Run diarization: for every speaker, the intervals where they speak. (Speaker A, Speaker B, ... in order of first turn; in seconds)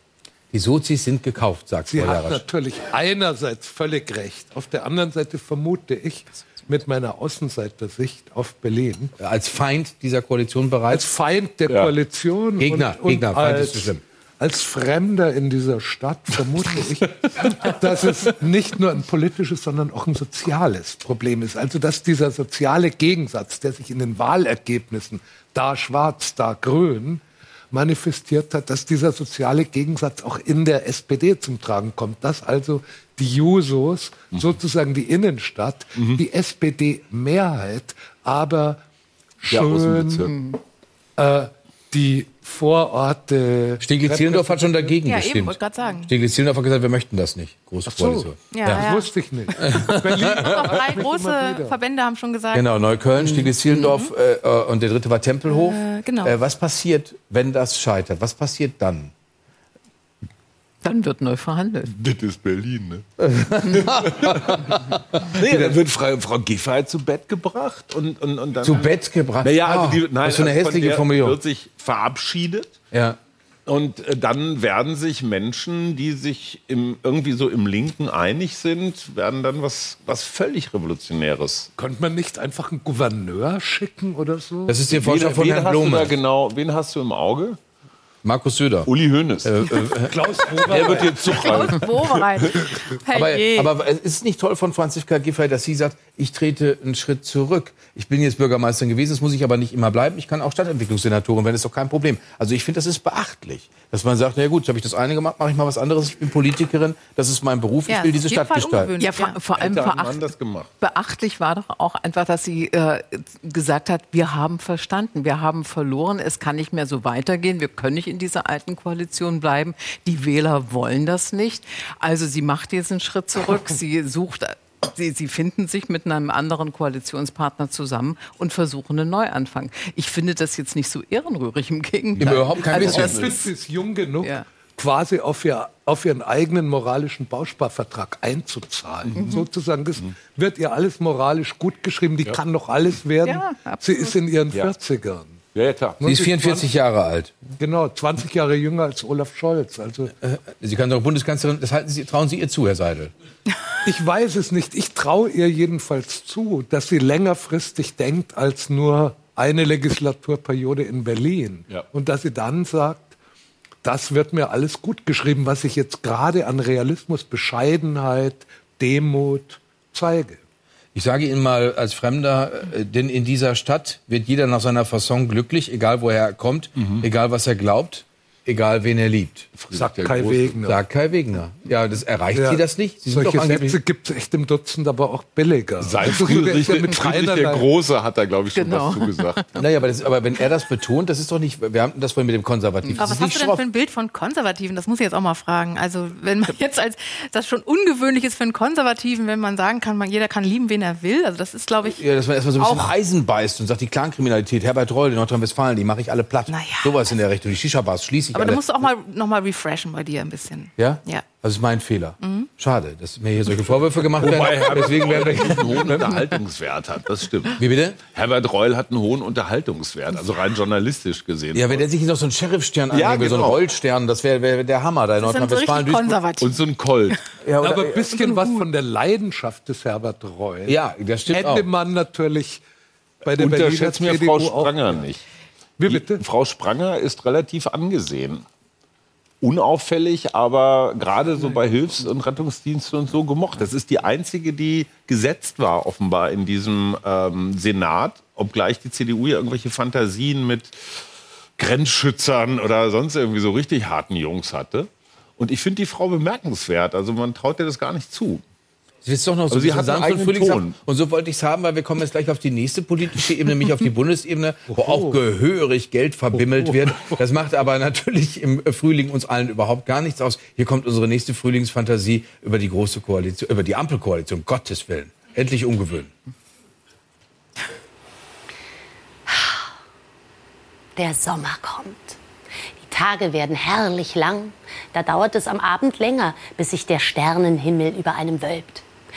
Speaker A: 0.5-2.4, 9.2-11.1, 12.6-14.0, 43.8-48.8, 49.6-50.7, 52.5-59.1, 63.2-65.7, 68.6-71.4, 72.9-73.2, 84.7-86.2, 88.2-88.9, 89.4-90.2, 90.8-91.0, 93.1-108.9, 132.2-133.3, 146.0-147.4, 150.2-153.1, 170.9-179.5, 180.7-183.8, 189.6-193.6, 201.9-208.9, 210.8-216.1, 217.6-218.0, 221.6-226.2, 227.4-228.3, 230.7-231.7, 259.0-276.1
Speaker B: 1.9-9.1, 10.9-38.8, 39.4-40.3, 41.2-44.8, 47.9-51.8, 81.8-84.8, 90.0-91.4, 132.7-145.4, 146.0-146.7, 147.6-150.1, 153.8-163.2, 163.8-170.4, 179.7-180.8, 182.3-187.7, 214.7-216.0, 227.6-230.8, 231.3-232.6, 233.2-234.8, 235.8-236.2, 264.7-265.2, 266.4-267.1
Speaker C: 36.0-36.2, 39.5-40.3, 61.9-63.0, 64.2-64.6, 65.2-72.8, 73.7-81.7, 84.9-87.6, 88.9-89.9, 90.6-92.4, 109.6-110.7, 145.5-146.0, 176.8-177.0, 179.6-180.7, 185.8-189.4, 214.2-217.6, 218.1-221.8, 222.9-223.6, 226.4-227.2, 233.4-235.2, 235.9-238.4, 239.4-250.8, 251.6-258.4, 259.5-260.8
Speaker D: 40.3-40.6, 53.2-53.9, 60.8-61.9, 109.0-110.2, 110.8-133.5, 139.2-139.5, 143.2-144.2, 188.6-189.6
Speaker E: 45.0-46.1, 48.5-49.1, 50.2-52.7, 53.8-54.1, 55.5-56.3, 91.4-93.7, 107.9-109.4, 193.0-202.0, 202.6-202.9, 206.5-207.0, 208.3-211.2, 212.2-212.5, 225.2-226.6
Speaker F: 279.3-279.6, 281.0-282.2, 282.8-288.8